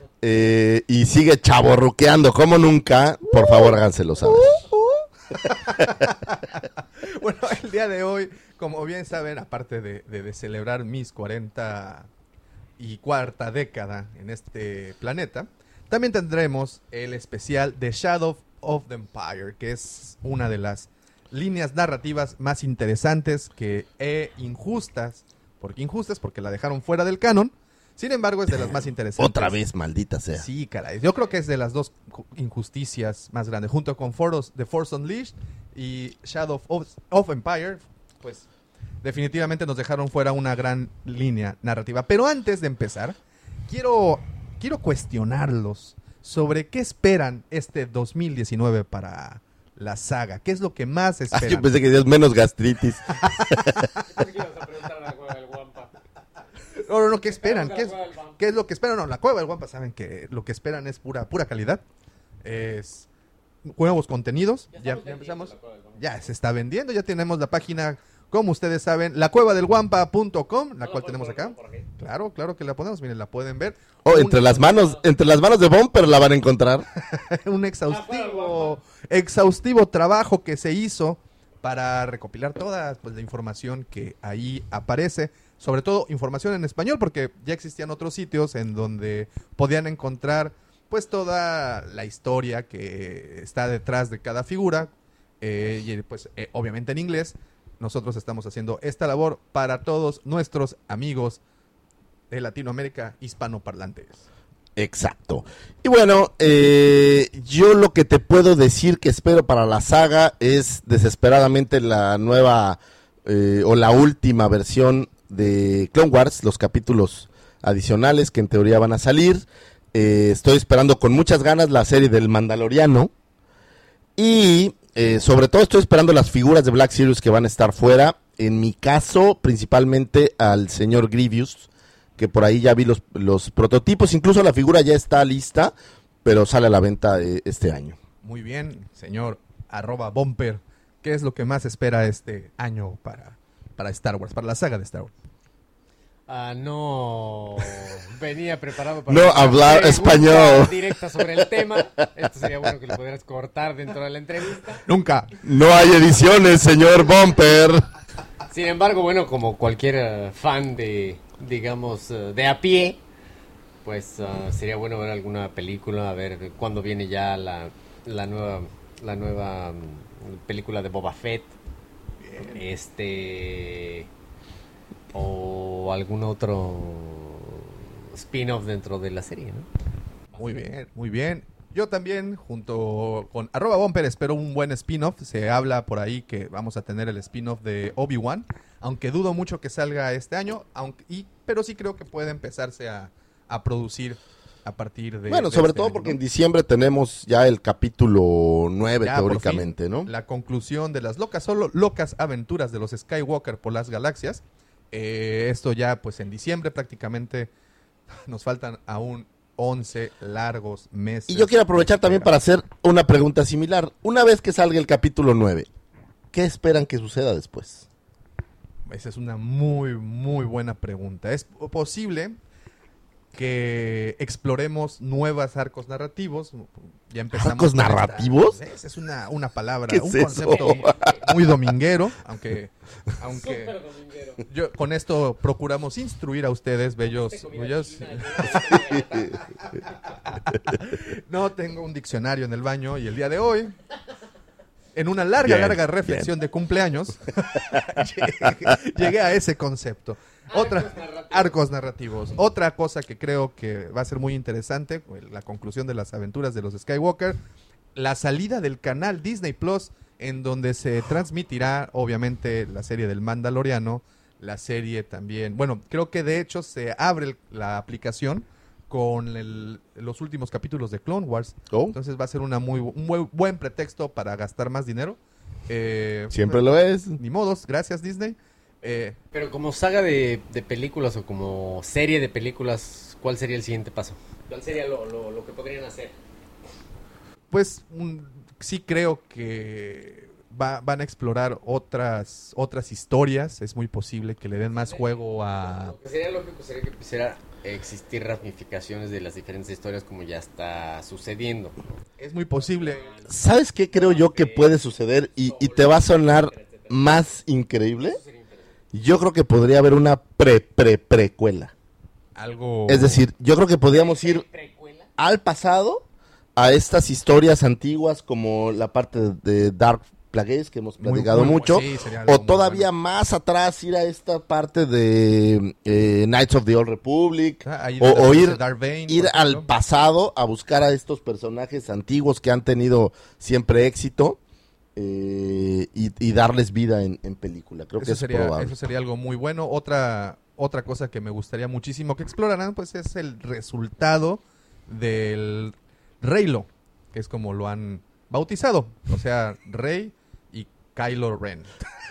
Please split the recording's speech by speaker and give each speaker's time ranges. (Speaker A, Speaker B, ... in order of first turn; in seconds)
Speaker A: 0.2-4.6, 28.5-30.4, 51.3-53.9, 74.0-76.8, 104.8-123.1, 124.2-135.7, 136.2-138.0, 149.1-150.7, 155.4-157.9, 195.3-200.1, 211.3-215.7, 216.3-217.8, 227.3-228.6, 229.9-231.2, 239.0-239.3, 245.4-246.3, 271.7-271.9, 276.3-277.2, 303.3-308.2, 308.9-311.7, 312.9-314.4, 315.2-316.0, 316.6-334.4, 334.9-338.7
Speaker B: 4.6-12.1, 12.8-29.6, 30.3-38.5, 39.0-43.2, 43.7-51.7, 56.8-61.8, 62.4-63.1, 63.6-75.0, 77.1-101.4, 102.3-104.2, 138.2-145.1, 154.9-155.3, 172.2-172.6, 180.3-196.2, 199.0-207.5, 208.2-212.3, 218.9-222.4, 223.3-233.7, 234.5-239.0, 240.1-243.7, 244.9-257.4, 257.9-279.1, 287.5-295.9, 302.2-303.1, 312.4-313.2, 321.0-322.9, 327.6-329.7, 338.0-351.9
Speaker C: 53.9-56.0, 57.3-58.4, 64.7-66.3, 70.8-71.9, 77.8-78.8, 146.3-154.8, 158.5-163.0, 163.8-171.5, 172.4-174.1, 175.1-179.7, 230.5-231.3, 233.2-234.4, 237.0-240.1, 250.5-251.6, 279.3-286.1, 294.7-301.9, 302.6-307.3, 308.0-308.8, 313.9-315.1